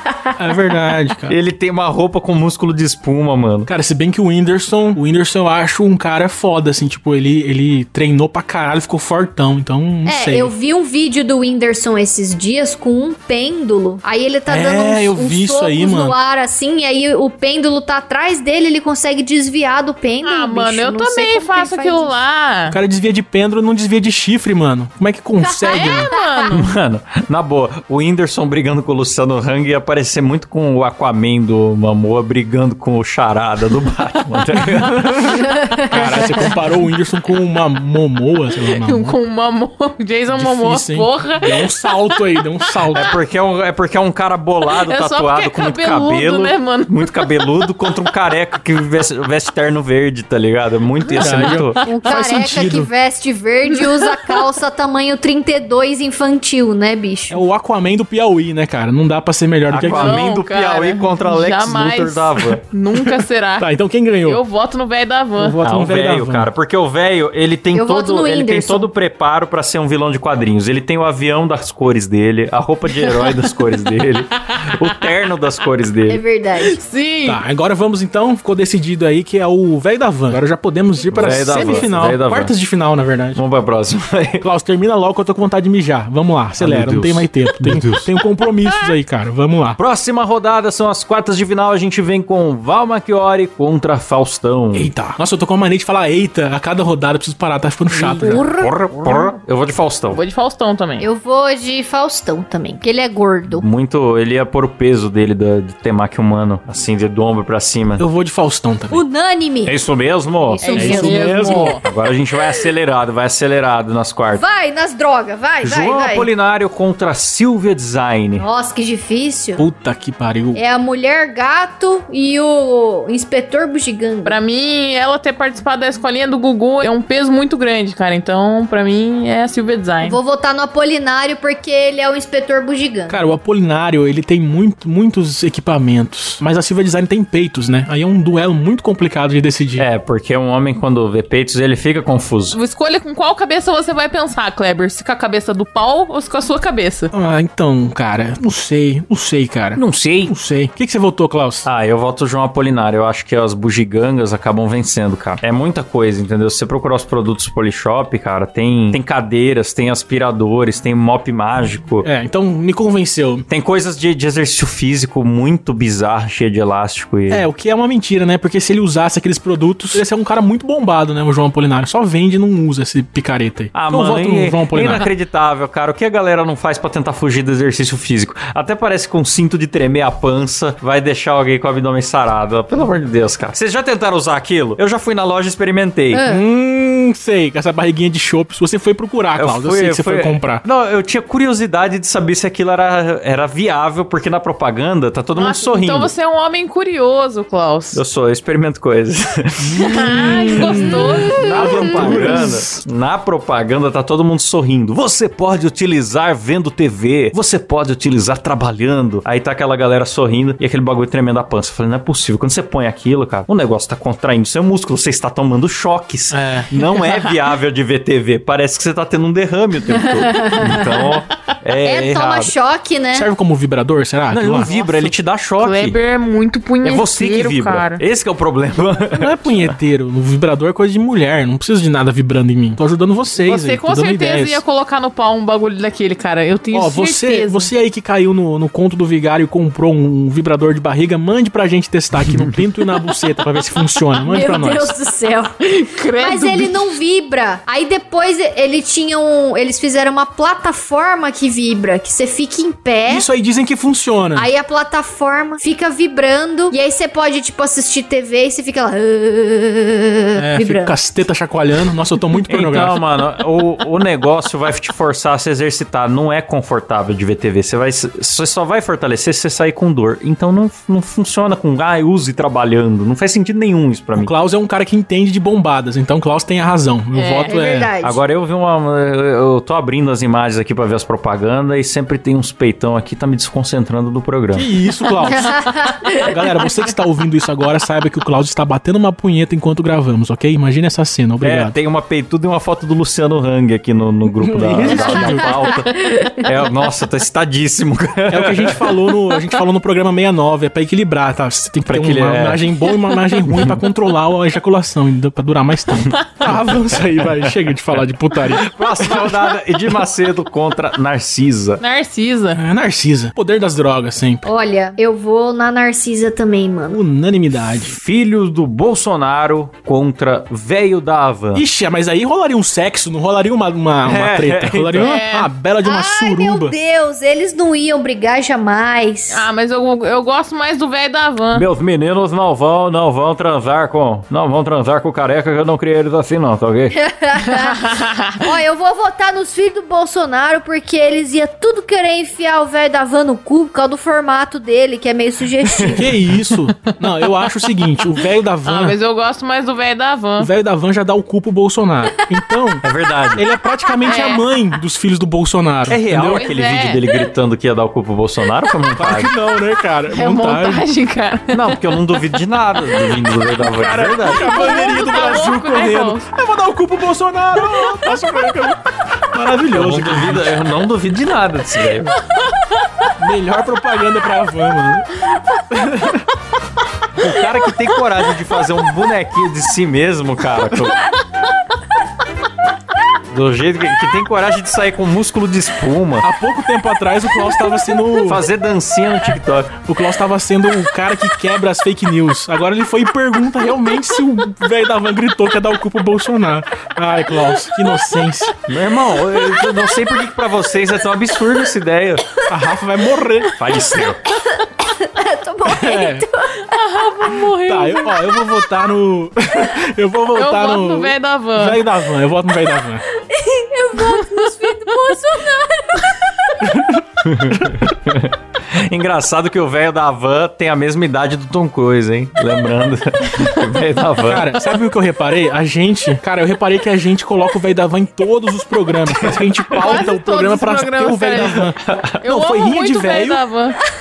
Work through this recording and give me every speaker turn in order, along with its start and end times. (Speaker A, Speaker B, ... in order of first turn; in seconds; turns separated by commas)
Speaker A: 0.4-1.4, Speaker B: 1.3-3.7, Speaker A: 3.7-10.5, Speaker C: 10.1-22.2, Speaker A: 14.5-16.1, Speaker D: 20.2-22.8, Speaker A: 22.7-26.1, Speaker C: 25.4-26.6, Speaker D: 25.6-26.7, Speaker B: 26.5-35.5, Speaker A: 34.6-39.2, Speaker C: 35.6-36.3, Speaker D: 38.6-43.1, Speaker A: 40.3-43.1, Speaker B: 42.9-51.8, Speaker D: 44.6-47.9, Speaker A: 51.1-52.9, Speaker C: 51.8-57.4, Speaker D: 53.7-54.4, Speaker A: 57.3-60.2, Speaker B: 59.7-62.6, Speaker D: 59.9-63.7, Speaker A: 63.6-64.4, Speaker D: 64.2-65.6, Speaker A: 65.4-66.5, Speaker B: 65.6-76.2, Speaker C: 67.7-68.9, Speaker D: 73.1-73.4, Speaker D: 74.6-74.9, Speaker C: 76.1-76.8, Speaker D: 76.6-77.4, Speaker A: 77.2-83.4, Speaker B: 81.1-82.5, Speaker B: 83.3-84.5, Speaker A: 84.4-89.8, Speaker B: 86.6-88.1, Speaker B: 89.8-94.9, Speaker A: 94.7-98.5, Speaker B: 98.0-100.2, Speaker C: 98.1-99.3, Speaker D: 100.1-101.1, Speaker C: 101.0-103.6, Speaker B: 103.5-108.0, Speaker A: 108.0-109.0, Speaker C: 108.9-109.8, Speaker B: 109.7-114.4, Speaker C: 110.4-111.8, Speaker D: 110.6-111.8, Speaker A: 110.7-111.8, Speaker C: 114.3-116.3, Speaker B: 115.6-118.4, Speaker C: 118.4-119.6, Speaker A: 119.6-120.6, Speaker C: 120.5-124.3, Speaker D: 124.2-130.2, Speaker C: 130.0-133.2, Speaker A: 133.1-139.8, Speaker B: 139.8-142.6, Speaker D: 142.5-147.1, Speaker A: 147.1-151.7, Speaker B: 149.7-150.3, Speaker B: 151.6-162.1, Speaker A: 162.0-163.4, Speaker B: 163.5-167.4, Speaker A: 167.3-175.1, Speaker B: 173.7-186.2, Speaker C: 186.1-186.4, Speaker A: 186.2-190.6, Speaker B: 189.4-196.1, Speaker D: 195.3-198.0, Speaker B: 197.9-222.5, Speaker A: 199.6-202.7, Speaker D: 199.8-202.3, Speaker A: 216.3-216.7, Speaker C: 219.9-221.1, Speaker C: 221.8-223.3, Speaker A: 223.1-224.7, Speaker B: 224.3-226.0, Speaker D: 225.6-228.0, Speaker B: 226.8-229.7, Speaker A: 229.1-234.6, Speaker D: 233.4-237.7, Speaker A: 236.7-244.9, Speaker B: 242.3-242.5, Speaker C: 244.2-245.5, Speaker D: 245.6-246.9, Speaker C: 246.2-253.3, Speaker A: 253.1-254.5, Speaker C: 254.3-260.9, Speaker A: 260.4-263.0, Speaker B: 262.5-274.3, Speaker A: 274.1-277.9, Speaker D: 277.1-277.5, Speaker C: 277.4-278.2, Speaker B: 278.0-284.7, Speaker A: 284.5-291.8, Speaker C: 285.2-286.3, Speaker B: 291.4-299.0, Speaker A: 294.4-295.7, Speaker C: 294.9-296.5, Speaker A: 298.3-309.6, Speaker B: 301.9-302.6, Speaker B: 303.5-303.8, Speaker B: 308.4-311.8, Speaker D: 311.8-312.6, Speaker A: 312.5-314.4, Speaker C: 314.4-317.0, Speaker A: 316.9-317.9, Speaker B: 317.6-321.6, Speaker A: 321.5-326.7, Speaker B: 324.0-325.1, Speaker D: 324.9-325.5, Speaker C: 325.8-329.4, Speaker D: 329.3-331.6, Speaker B: 331.5-336.9, Speaker C: 336.9-346.1, Speaker D: 337.5-338.4, Speaker B: 345.7-346.1, Speaker A: 345.9-348.9, Speaker D: 348.6-350.5, Speaker A: 350.4-352.8, Speaker B: 352.8-353.4, Speaker A: 353.4-356.5, Speaker C: 353.8-354.1, Speaker D: 354.0-354.4, Speaker B: 355.9-359.3, Speaker D: 356.1-357.0, Speaker A: 358.9-360.8, Speaker D: 360.1-361.8, Speaker B: 361.5-364.7, Speaker A: 363.6-370.5, Speaker D: 364.4-366.2, Speaker B: 369.7-372.2, Speaker D: 372.1-373.1, Speaker A: 373.2-375.2, Speaker A: 375.7-376.0, Speaker B: 377.2-381.0, Speaker B: 383.3-386.3, Speaker A: 386.2-388.4, Speaker B: 388.2-389.8, Speaker A: 389.8-398.6, Speaker B: 398.6-402.4, Speaker A: 402.5-403.6, Speaker B: 403.5-404.3, Speaker C: 404.9-407.3, Speaker A: 405.6-406.3, Speaker D: 406.6-408.2, Speaker A: 407.6-413.0, Speaker D: 410.3-411.8, Speaker C: 413.1-416.7, Speaker D: 413.9-415.2, Speaker A: 416.6-417.0, Speaker B: 417.2-424.6, Speaker A: 417.6-417.9, Speaker A: 424.2-433.4, Speaker B: 429.2-430.0, Speaker D: 429.8-433.8, Speaker B: 431.8-432.2